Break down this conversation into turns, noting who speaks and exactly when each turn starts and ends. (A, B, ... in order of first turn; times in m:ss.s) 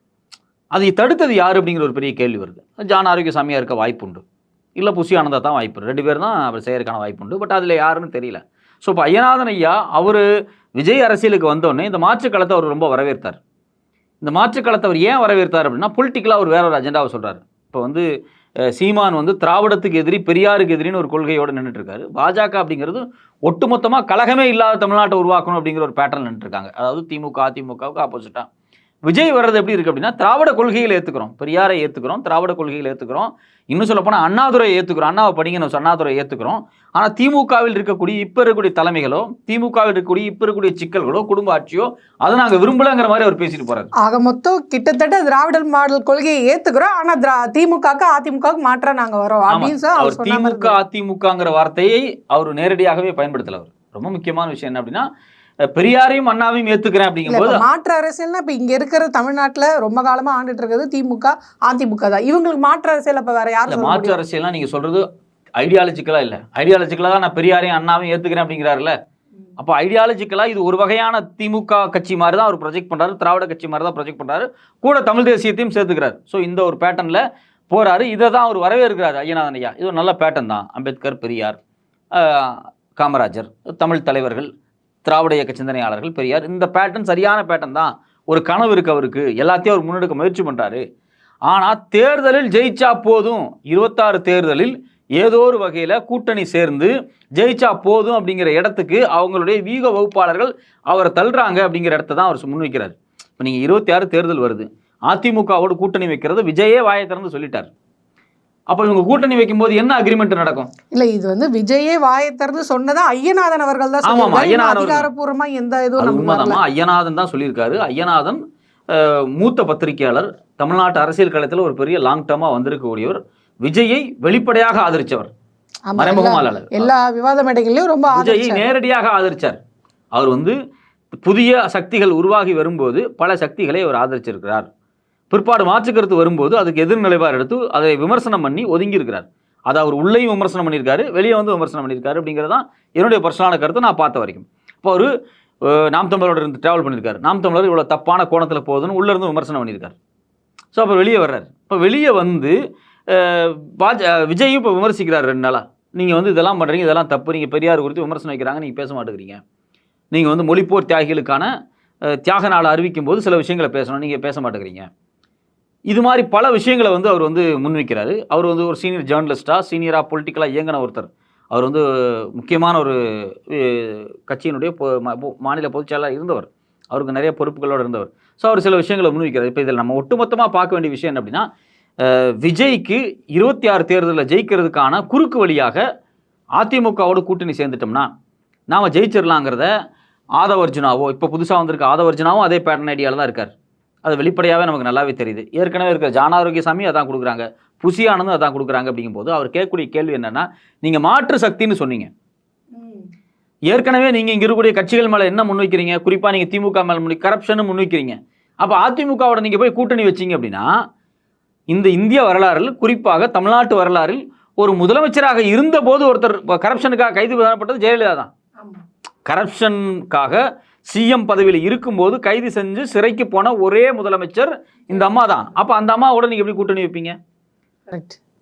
0:00.7-0:04.2 A
0:04.8-0:10.2 A
0:10.8-0:13.4 A
0:14.2-0:18.1 A
0:18.7-0:28.5 A
0:29.0-0:43.9 A
0:44.0-0:50.8 B
0:49.5-0:55.0 A
0:55.7-0:57.6 A
0:57.3-1:04.2 B
1:03.7-1:05.0 A
1:05.6-1:09.0 A
1:09.6-1:21.6 A
1:22.1-1:24.5 A
1:25.0-1:30.8 A
1:31.5-1:47.7 A
1:48.7-1:50.7 A
1:50.9-1:56.6 B
1:54.0-1:55.1 A
1:56.0-2:05.3 A
2:05.9-2:08.6 B
2:06.0-2:06.9 A
2:08.1-2:09.6 A
2:10.1-2:10.6 A
2:11.2-2:14.7 A
2:15.3-2:25.1 A
2:25.6-2:29.9 A
2:30.7-2:32.6 A
2:33.1-2:39.4 A
2:40.1-2:41.5 A
2:42.1-2:44.9 A
2:45.9-3:01.4 A
3:02.0-3:05.8 A
3:06.6-3:08.1 A
3:08.7-3:09.7 A
3:10.4-3:13.5 A
3:14.0-3:22.1 A
3:22.7-3:23.1 B
3:23.7-3:30.7 A
3:31.7-3:38.3 A
3:39.2-3:47.2 A
3:47.9-3:48.2 B